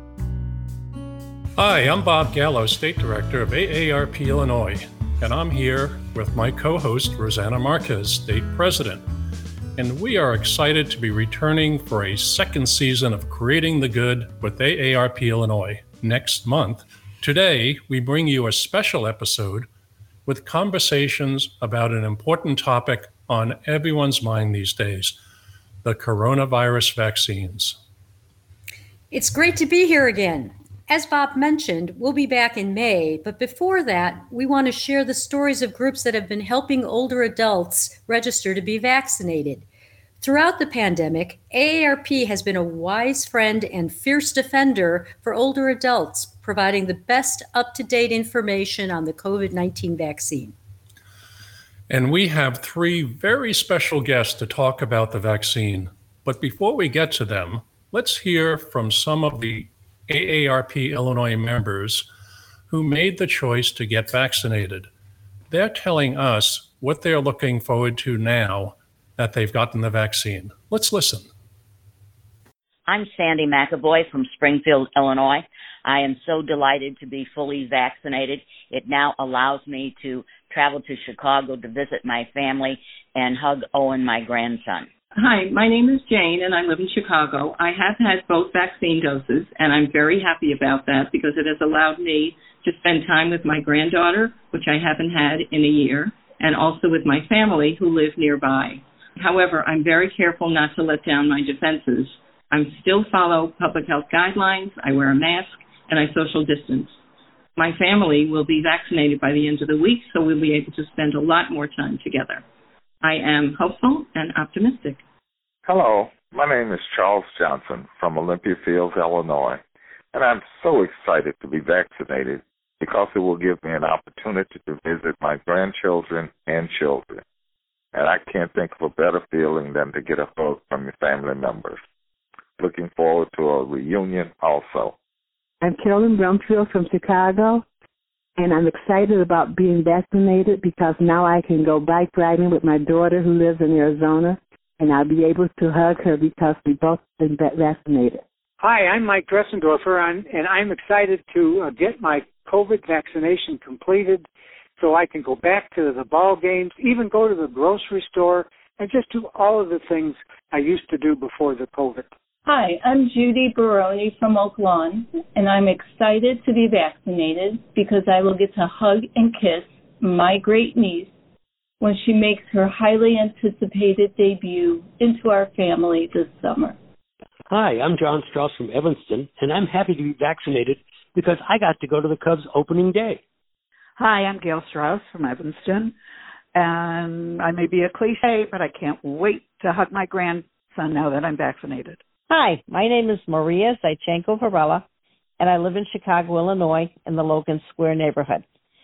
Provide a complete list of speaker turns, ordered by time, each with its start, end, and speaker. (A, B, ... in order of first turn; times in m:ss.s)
0:01.6-0:09.0 A
0:09.8-0:19.7 A
0:20.2-0:25.2 A
0:25.8-0:27.8 A
0:29.1-0:39.6 B
0:40.2-0:50.5 B
0:51.9-1:02.0 A
1:02.7-1:04.9 A
1:05.5-1:11.3 A
1:12.9-1:24.9 C
1:25.1-1:46.9 D
1:47.6-1:52.4 D
1:53.0-1:55.0 D
1:55.6-1:59.6 E
2:00.1-2:07.2 E
2:07.9-2:11.8 E
2:12.6-2:14.9 E
2:15.6-2:17.6 F
2:18.4-2:28.2 F
2:28.6-2:34.2 G
2:34.8-2:42.1 G
2:42.4-2:51.1 H
2:51.8-2:56.8 H
2:57.5-3:03.2 I
3:04.0-3:05.9 J
3:06.5-3:12.0 J
3:12.3-3:14.8 K
3:15.4-3:18.4 K